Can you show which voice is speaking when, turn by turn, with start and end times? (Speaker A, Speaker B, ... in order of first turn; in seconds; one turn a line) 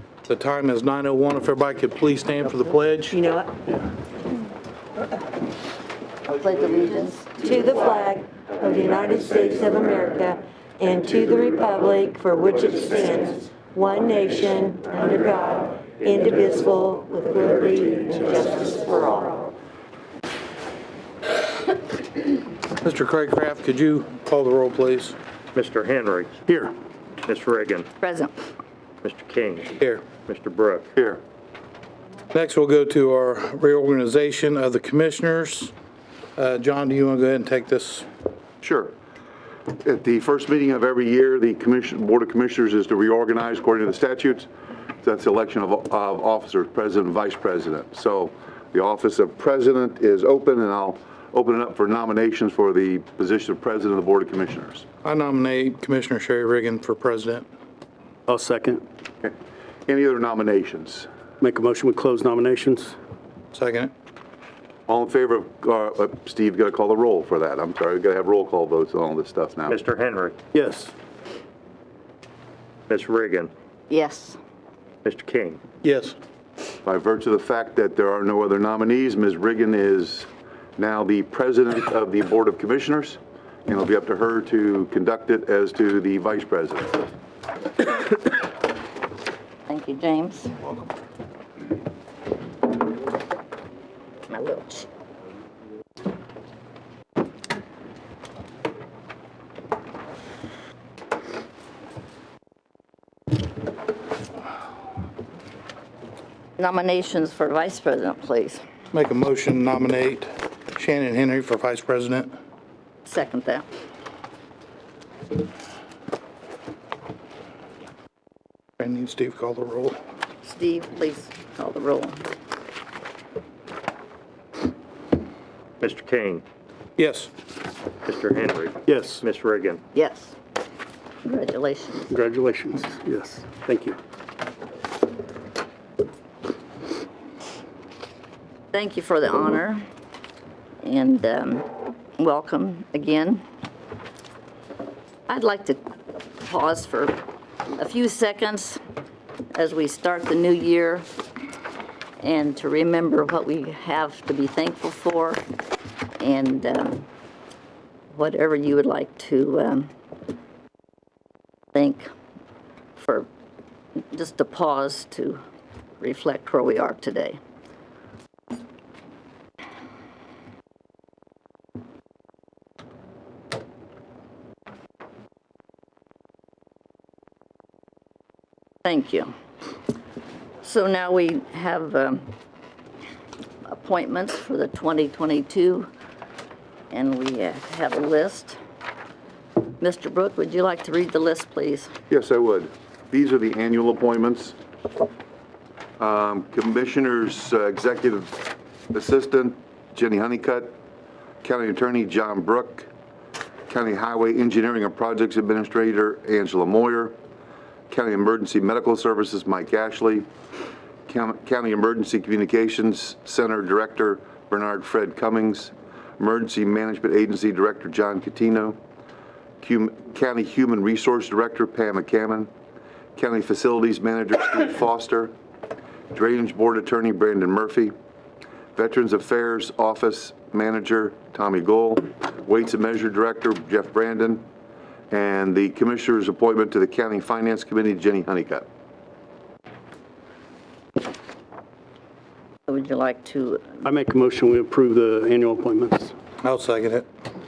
Speaker A: 0.3-3.2
Speaker B: 3.1-3.5
Speaker C: 6.3-7.6
Speaker B: 7.5-19.5
Speaker A: 22.8-25.2
Speaker D: 25.5-26.4
Speaker E: 26.5-26.7
Speaker D: 27.2-27.9
Speaker C: 28.0-28.3
Speaker D: 29.0-30.9
Speaker F: 30.9-31.2
Speaker A: 32.3-35.7
Speaker A: 36.4-38.1
Speaker F: 38.6-38.9
Speaker F: 39.8-44.5
Speaker F: 45.0-54.9
Speaker A: 55.0-57.5
Speaker E: 58.3-58.8
Speaker F: 59.9-61.1
Speaker E: 61.4-63.0
Speaker A: 63.5-63.9
Speaker F: 64.9-69.8
Speaker D: 69.7-70.4
Speaker E: 70.5-70.9
Speaker D: 72.9-73.5
Speaker C: 73.9-74.4
Speaker D: 75.0-75.6
Speaker A: 75.8-76.2
Speaker F: 76.8-87.1
Speaker C: 89.7-90.6
Speaker C: 94.3-94.9
Speaker C: 106.6-108.6
Speaker A: 108.9-112.3
Speaker C: 113.1-113.7
Speaker A: 118.8-120.0
Speaker C: 120.4-122.2
Speaker D: 125.8-126.4
Speaker A: 127.0-127.3
Speaker D: 128.1-129.8
Speaker E: 128.9-129.2
Speaker C: 129.9-130.4
Speaker C: 131.2-132.1
Speaker E: 132.1-134.0
Speaker C: 138.7-139.8
Speaker C: 140.8-141.7
Speaker C: 142.2-143.4
Speaker C: 145.3-147.2
Speaker C: 147.8-148.8
Speaker C: 149.5-151.1
Speaker C: 152.2-155.4
Speaker C: 156.2-157.1
Speaker C: 158.1-159.9
Speaker C: 161.7-162.1
Speaker C: 163.0-163.3
Speaker C: 164.1-165.4
Speaker C: 166.0-167.4
Speaker C: 178.8-179.3
Speaker C: 180.6-182.3
Speaker C: 183.7-185.9
Speaker C: 186.9-188.6
Speaker C: 189.8-191.9
Speaker F: 192.1-194.6
Speaker F: 196.0-200.7
Speaker F: 201.4-202.9
Speaker F: 203.7-207.2
Speaker F: 207.9-210.3
Speaker F: 211.1-218.8
Speaker F: 219.6-222.5
Speaker F: 223.2-225.3
Speaker F: 226.1-227.9
Speaker F: 228.8-234.4
Speaker F: 235.1-238.7
Speaker C: 242.7-243.8
Speaker E: 243.8-246.1
Speaker A: 246.4-247.1